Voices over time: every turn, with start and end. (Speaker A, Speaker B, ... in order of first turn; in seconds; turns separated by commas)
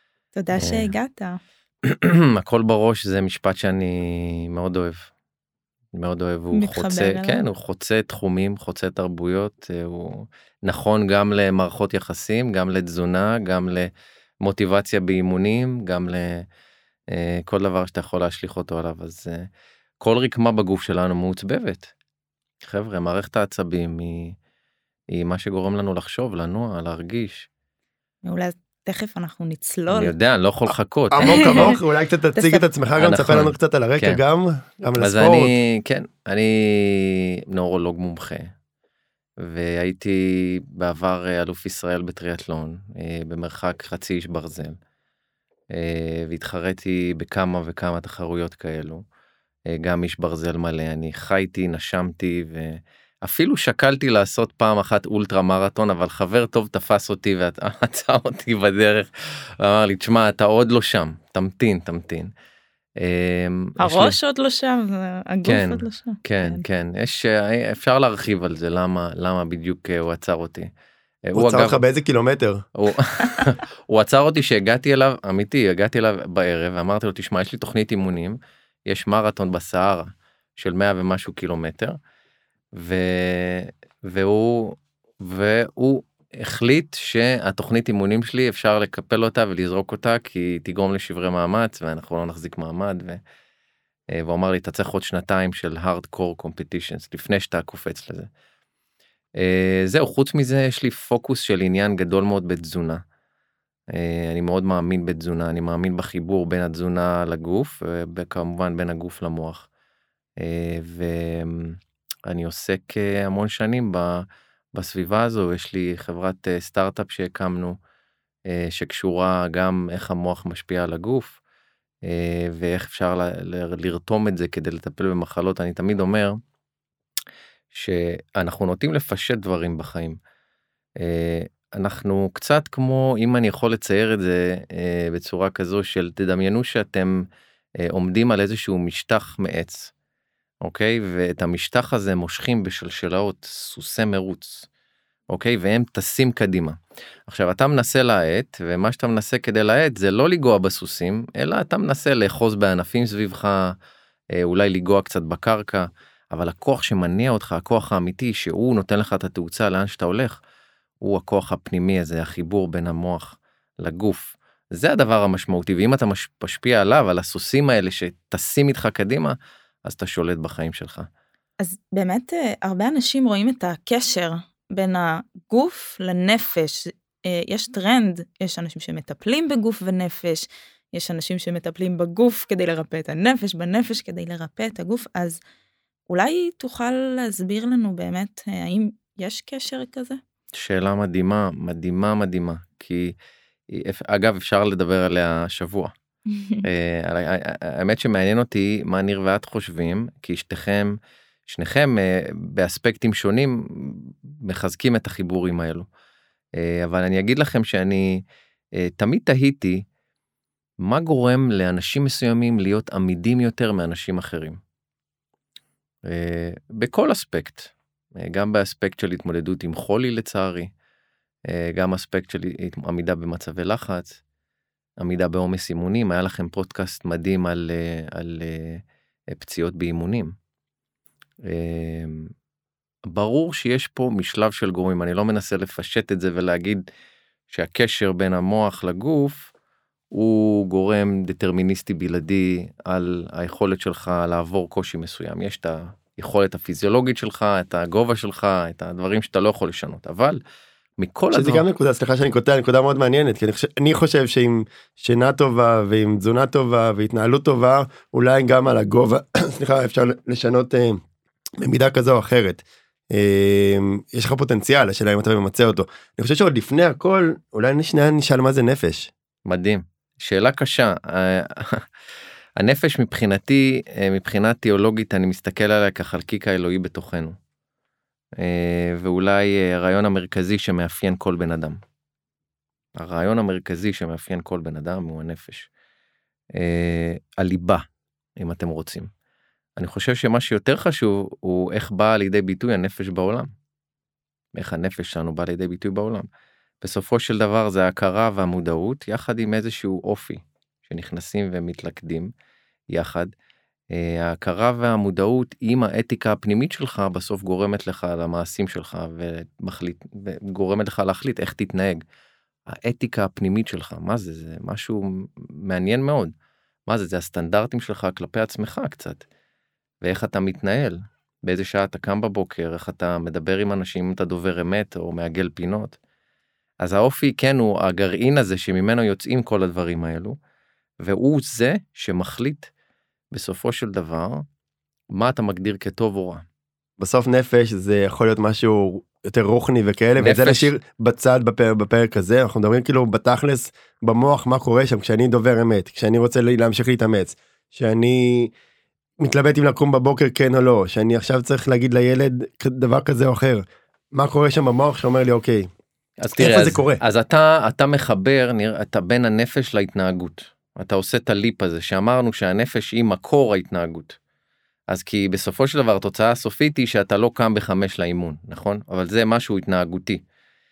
Speaker A: 0.3-1.4, Speaker B: 0.5-0.9, Speaker B: 1.8-5.1, Speaker B: 5.9-13.9, Speaker A: 6.5-7.4, Speaker B: 14.4-16.5, Speaker B: 17.1-19.5, Speaker B: 20.0-21.9, Speaker B: 22.6-24.4, Speaker B: 25.1-27.5, Speaker A: 28.2-30.1, Speaker B: 29.9-31.7, Speaker C: 31.1-35.5, Speaker A: 31.4-31.8, Speaker A: 32.4-32.6, Speaker B: 33.0-34.2, Speaker B: 35.0-38.5, Speaker B: 39.4-44.8, Speaker B: 45.7-49.0, Speaker B: 49.7-62.3, Speaker B: 63.0-64.2, Speaker A: 63.8-66.6, Speaker B: 65.5-70.7, Speaker B: 71.2-71.8, Speaker C: 71.3-72.7, Speaker B: 72.8-82.0, Speaker B: 82.7-93.2, Speaker B: 94.1-98.3, Speaker B: 99.3-103.0, Speaker B: 103.9-109.7, Speaker B: 110.4-117.8, Speaker B: 118.5-121.4, Speaker B: 122.0-126.4, Speaker B: 127.7-130.2, Speaker B: 131.0-137.3, Speaker B: 137.8-139.9, Speaker B: 140.6-144.7, Speaker B: 145.3-153.8, Speaker B: 154.3-160.4, Speaker B: 161.0-171.1, Speaker A: 171.6-185.4, Speaker A: 186.1-190.2, Speaker B: 190.5-193.2, Speaker B: 193.7-195.9, Speaker A: 196.3-196.7, Speaker B: 196.6-200.9, Speaker B: 201.5-205.9, Speaker B: 206.6-208.2, Speaker B: 208.8-209.8, Speaker B: 210.8-214.6, Speaker B: 216.1-220.7, Speaker B: 221.4-224.2, Speaker B: 225.0-230.3, Speaker B: 231.4-232.3, Speaker B: 233.1-236.8, Speaker B: 237.5-239.5, Speaker B: 240.1-250.4, Speaker B: 251.0-251.7, Speaker C: 251.3-261.0, Speaker C: 261.6-269.1, Speaker B: 269.4-271.9, Speaker B: 272.6-277.4, Speaker B: 278.4-281.8, Speaker B: 283.0-285.7, Speaker B: 286.6-287.8, Speaker B: 288.4-289.1, Speaker B: 289.8-293.5, Speaker B: 294.5-296.3, Speaker B: 296.8-302.3, Speaker B: 302.9-303.3, Speaker B: 303.9-312.0, Speaker B: 312.7-316.3, Speaker B: 316.9-319.2, Speaker B: 320.0-326.0, Speaker B: 326.8-330.4, Speaker B: 331.0-332.7, Speaker B: 333.3-334.4, Speaker B: 335.1-336.4, Speaker C: 337.0-348.5, Speaker B: 340.2-340.7, Speaker C: 349.2-355.7, Speaker B: 356.2-364.2, Speaker C: 356.4-357.0, Speaker B: 364.9-370.2